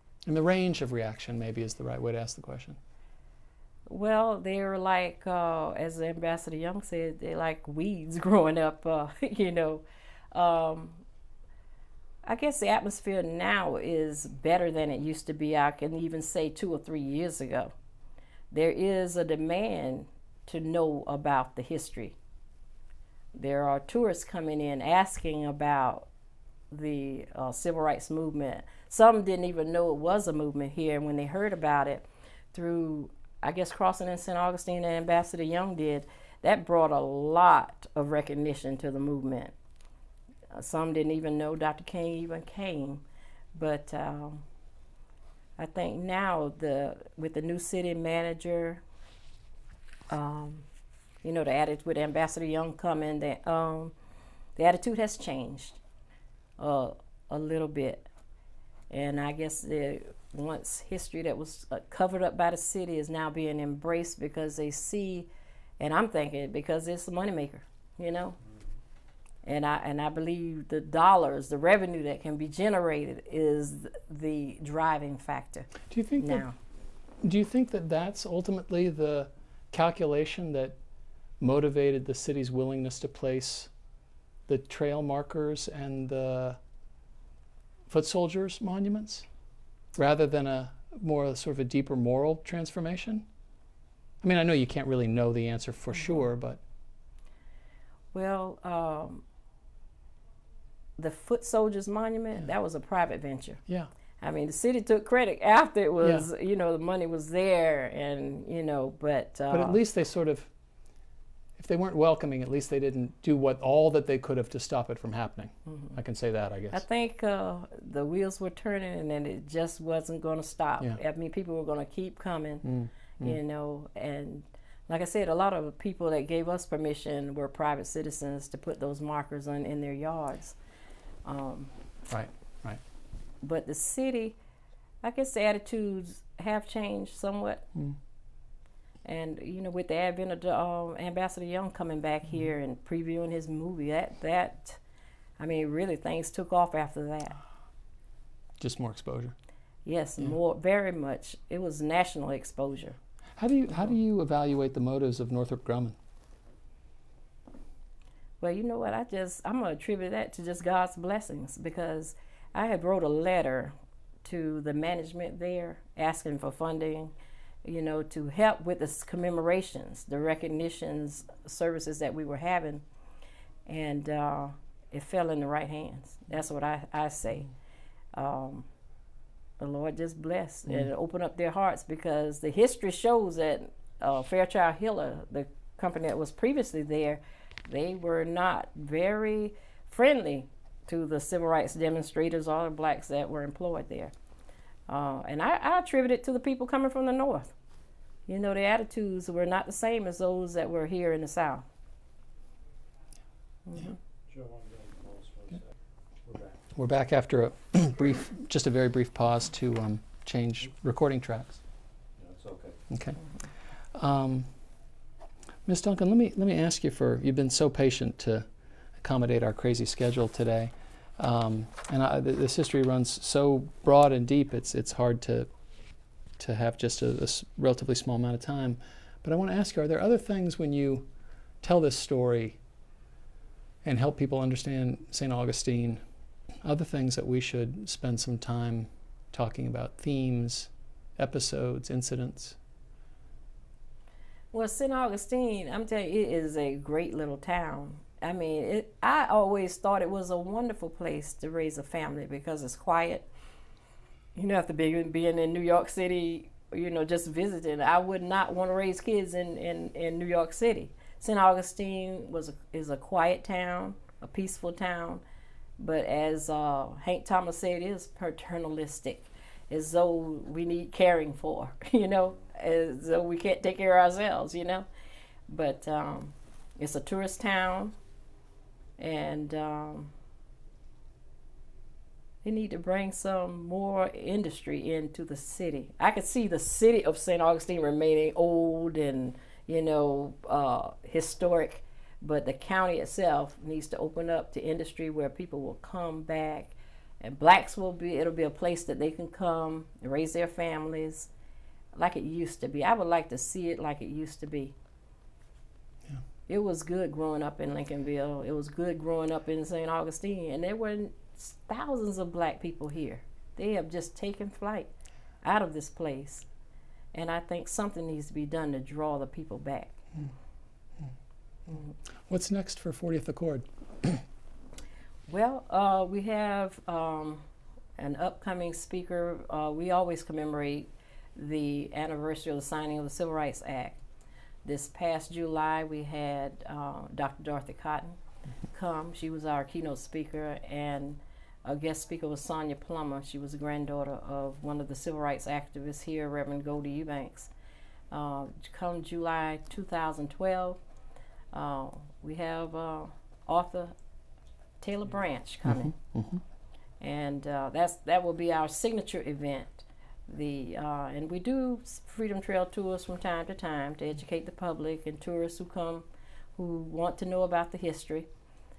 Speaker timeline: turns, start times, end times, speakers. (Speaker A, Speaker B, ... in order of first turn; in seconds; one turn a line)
Speaker A: 0.2-2.8
Speaker B: 3.9-11.0
Speaker B: 12.2-17.7
Speaker B: 18.5-22.2
Speaker B: 23.4-26.1
Speaker B: 26.7-39.5
Speaker B: 40.5-43.0
Speaker B: 43.5-44.4
Speaker B: 45.6-48.8
Speaker B: 50.1-50.7
Speaker B: 51.2-53.9
Speaker B: 54.6-55.8
Speaker B: 56.6-58.1
Speaker B: 58.9-65.3
Speaker B: 65.8-68.4
Speaker B: 69.5-76.5
Speaker A: 75.9-76.5
Speaker A: 77.2-80.8
Speaker A: 81.4-83.7
Speaker A: 84.5-86.6
Speaker A: 87.9-89.3
Speaker A: 90.0-93.3
Speaker A: 94.2-96.6
Speaker B: 98.1-99.2
Speaker B: 101.0-103.6
Speaker B: 104.2-109.8
Speaker A: 106.0-106.3
Speaker A: 109.5-110.5
Speaker A: 111.6-116.8
Speaker B: 116.7-130.6
Speaker A: 122.6-123.4
Speaker B: 131.2-131.7
Speaker A: 132.1-132.8
Speaker B: 133.4-134.4
Speaker B: 135.0-137.7
Speaker B: 139.1-144.8
Speaker B: 145.4-147.4
Speaker A: 148.6-149.3
Speaker B: 149.8-153.0
Speaker A: 153.4-156.0
Speaker B: 158.4-167.1
Speaker B: 167.6-172.8
Speaker B: 173.7-177.5
Speaker B: 178.1-178.7
Speaker B: 179.6-194.1
Speaker B: 194.9-197.5
Speaker B: 198.3-201.7
Speaker B: 203.7-204.0
Speaker C: 204.3-205.7
Speaker C: 206.2-206.6
Speaker A: 206.7-211.6
Speaker C: 212.2-212.8
Speaker A: 212.9-213.2
Speaker A: 213.9-214.5
Speaker A: 215.7-225.5
Speaker A: 226.4-231.1
Speaker A: 231.6-232.6
Speaker A: 233.8-236.0
Speaker A: 236.6-242.6
Speaker B: 244.5-253.3
Speaker B: 254.3-265.2
Speaker B: 265.8-274.9
Speaker B: 275.5-277.9
Speaker B: 279.0-280.1
Speaker B: 282.4-301.3
Speaker B: 301.9-304.8
Speaker B: 306.5-314.9
Speaker B: 315.4-316.5
Speaker B: 317.1-320.0
Speaker A: 322.3-324.2
Speaker B: 325.3-327.4
Speaker B: 328.0-334.0
Speaker B: 334.6-338.2
Speaker B: 338.7-347.5
Speaker B: 348.1-350.8
Speaker B: 351.5-353.9
Speaker B: 354.8-355.9
Speaker A: 355.6-356.4
Speaker B: 357.0-368.3